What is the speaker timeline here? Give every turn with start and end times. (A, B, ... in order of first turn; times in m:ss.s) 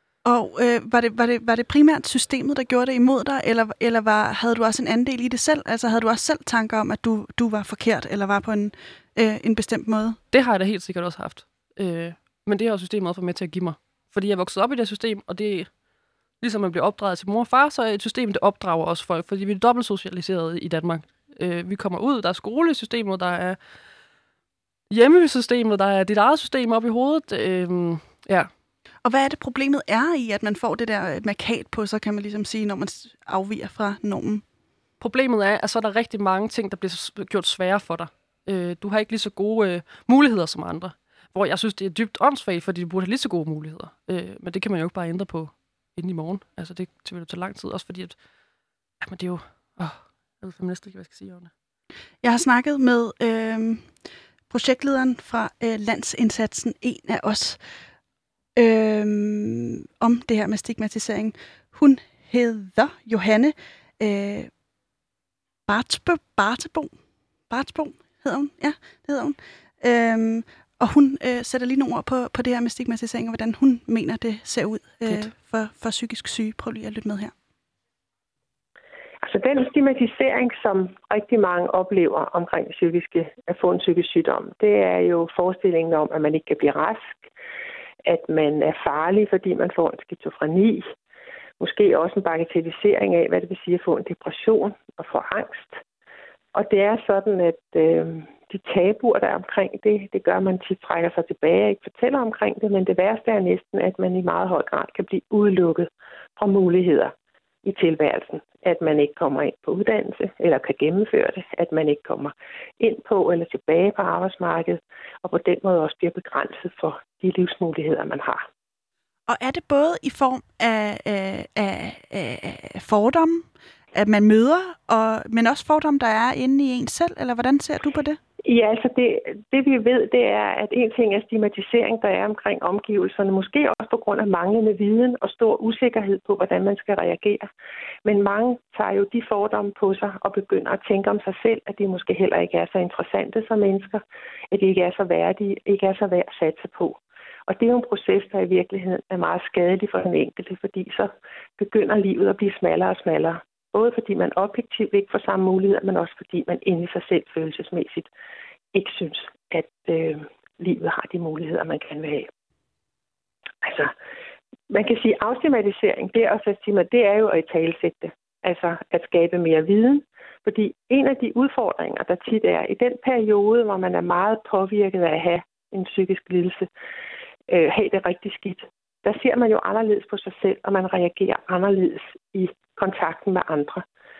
0:00.2-0:10.2 A
0:10.3-0:15.7 B
0:16.4-0:23.6 B
0:24.9-0:28.5 B
0:29.0-0:34.4 A
0:35.0-0:48.2 B
0:49.0-0:51.5 B
0:52.2-0:53.9 A
0:54.5-0:57.6 A
0:58.6-1:04.5 A
1:05.7-1:06.9 A
1:07.5-1:17.3 A
1:19.2-1:27.1 C
1:28.0-1:30.9 C
1:31.6-1:35.8 C
1:36.5-1:47.1 C
1:47.6-1:58.4 C
1:59.3-2:08.2 A
2:08.4-2:17.5 C
2:18.0-2:24.0 C
2:24.5-2:38.1 C
2:38.7-2:42.3 C
2:43.6-2:43.9 C
2:44.7-2:56.7 C
2:57.5-3:03.8 C